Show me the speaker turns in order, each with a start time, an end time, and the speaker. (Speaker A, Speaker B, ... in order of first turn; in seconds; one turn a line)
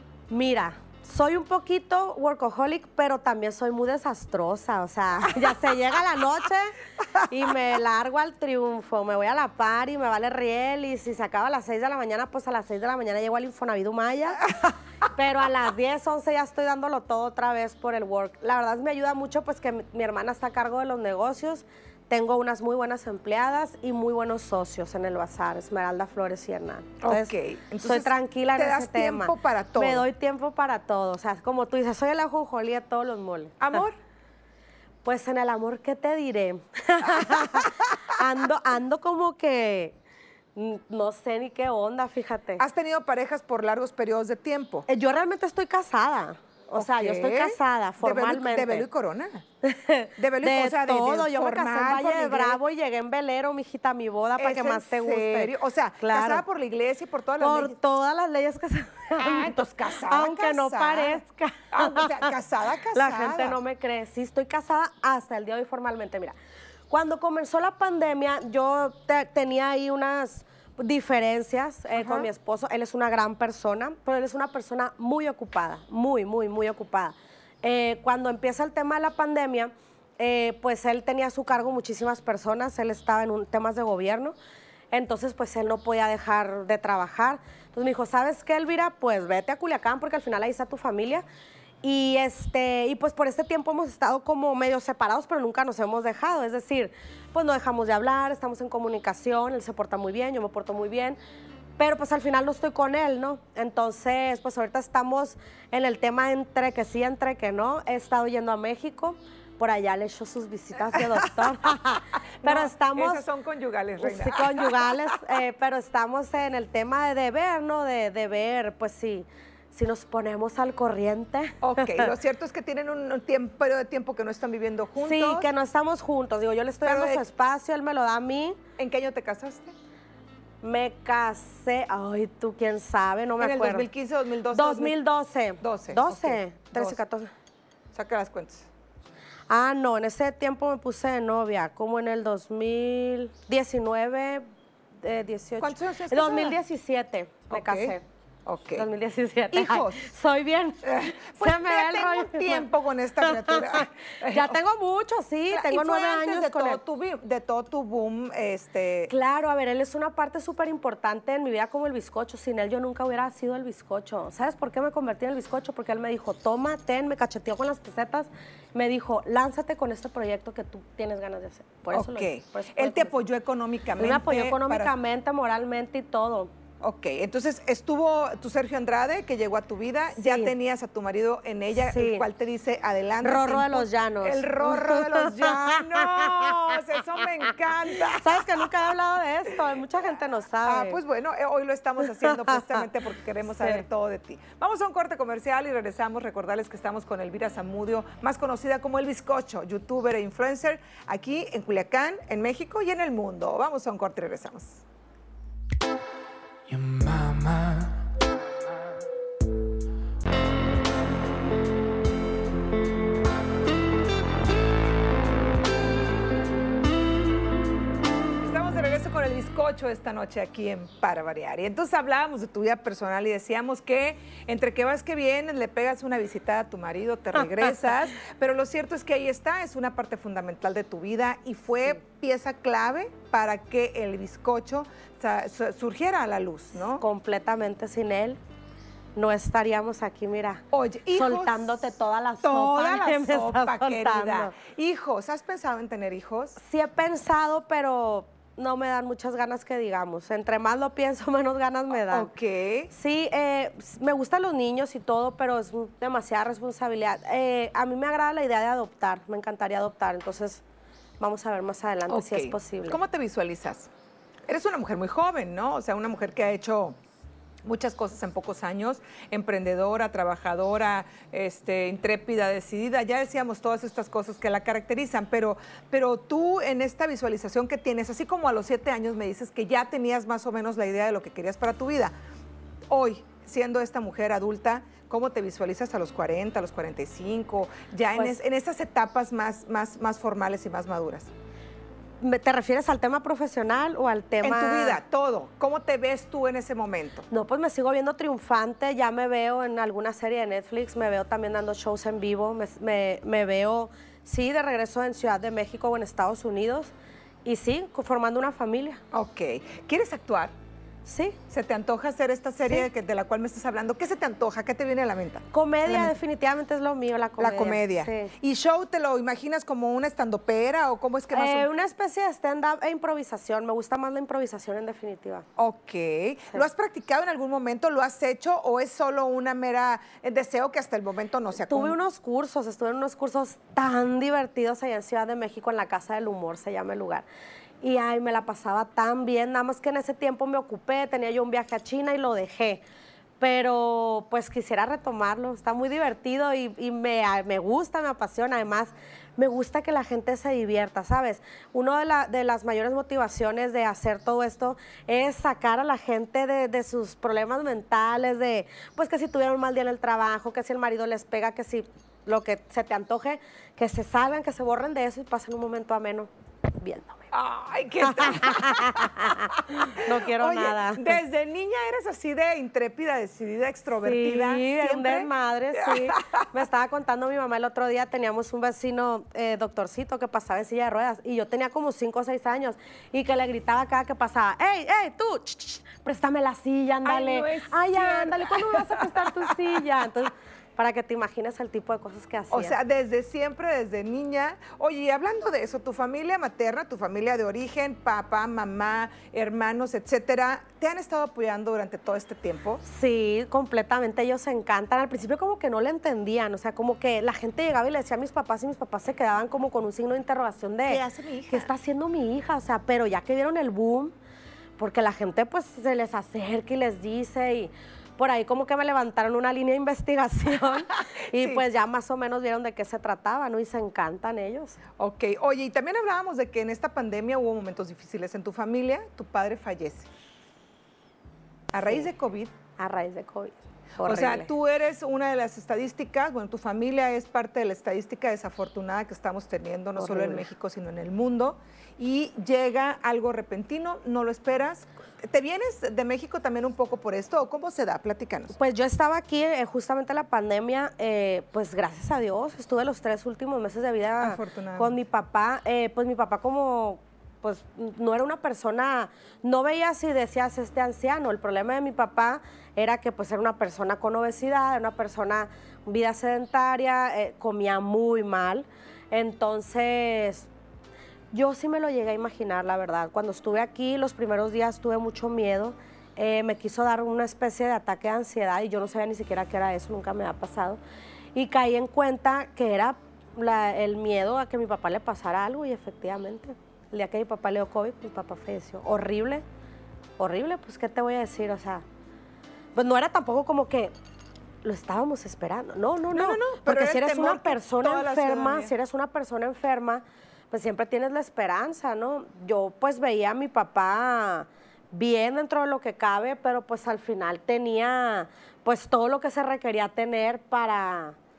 Speaker A: 0.3-33.6
Speaker B: 27.0-30.0
Speaker B: 33.6-34.0
Speaker A: 35.0-40.0
Speaker B: 37.0-37.9
Speaker A: 40.5-42.6
Speaker B: 42.6-44.9
Speaker A: 44.9-48.9
Speaker B: 46.7-49.4
Speaker A: 49.6-56.4
Speaker B: 50.2-52.6
Speaker B: 54.4-57.8
Speaker A: 57.4-62.3
Speaker B: 59.2-61.2
Speaker B: 61.7-63.6
Speaker A: 62.9-66.3
Speaker A: 66.9-84.3
Speaker B: 71.9-72.3
Speaker A: 84.9-91.2
Speaker A: 91.8-101.2
Speaker A: 101.8-113.2
Speaker B: 110.9-111.8
Speaker B: 112.4-115.2
Speaker A: 114.0-122.1
Speaker B: 121.6-125.5
Speaker A: 125.0-128.6
Speaker B: 126.8-127.2
Speaker B: 128.8-129.7
Speaker A: 130.6-133.9
Speaker B: 133.4-135.0
Speaker A: 134.5-137.3
Speaker B: 135.6-137.0
Speaker B: 137.9-138.7
Speaker A: 139.5-144.4
Speaker A: 145.0-148.0
Speaker B: 145.6-146.6
Speaker B: 147.5-147.9
Speaker B: 148.4-148.8
Speaker A: 148.8-152.7
Speaker B: 149.5-150.1
Speaker B: 150.8-154.6
Speaker A: 153.2-156.8
Speaker B: 155.5-159.1
Speaker A: 159.1-173.2
Speaker B: 171.9-174.9
Speaker A: 174.0-176.5
Speaker B: 176.8-188.9
Speaker A: 180.1-180.5
Speaker A: 181.8-182.2
Speaker A: 183.2-187.2
Speaker A: 187.9-191.0
Speaker B: 190.6-204.8
Speaker A: 192.2-192.8
Speaker C: 206.7-209.1
Speaker B: 218.4-237.0
Speaker A: 237.0-238.4
Speaker A: 239.2-240.6
Speaker B: 240.7-241.6
Speaker A: 241.1-244.5
Speaker B: 242.4-246.6
Speaker A: 246.6-252.3
Speaker B: 251.9-252.9
Speaker A: 252.9-260.6
Speaker A: 261.2-263.0
Speaker B: 262.1-263.9
Speaker B: 264.5-267.0
Speaker B: 267.6-282.1
Speaker B: 282.9-291.3
Speaker A: 292.2-295.0
Speaker B: 294.4-297.3
Speaker A: 297.3-306.9
Speaker A: 307.4-309.0
Speaker B: 309.1-310.5
Speaker A: 311.1-311.4
Speaker B: 311.5-316.1
Speaker A: 315.5-318.3
Speaker B: 317.4-321.7
Speaker A: 321.3-325.4
Speaker B: 325.6-332.0
Speaker A: 331.6-337.2
Speaker A: 337.8-342.8
Speaker A: 343.4-367.2
Speaker B: 367.3-376.6
Speaker A: 368.0-371.2
Speaker A: 373.9-392.8
Speaker B: 387.0-390.1
Speaker B: 392.5-402.8
Speaker A: 402.8-414.1
Speaker B: 410.9-411.7
Speaker A: 414.8-424.8
Speaker B: 421.3-421.6
Speaker B: 425.0-430.1
Speaker B: 431.7-432.5
Speaker A: 432.8-434.5
Speaker B: 434.0-448.5
Speaker A: 440.0-440.5
Speaker A: 448.5-470.5
Speaker B: 454.2-454.9
Speaker A: 471.3-480.8
Speaker A: 481.3-489.4
Speaker A: 490.2-491.8
Speaker A: 492.7-493.9
Speaker A: 494.6-511.1
Speaker B: 496.1-498.7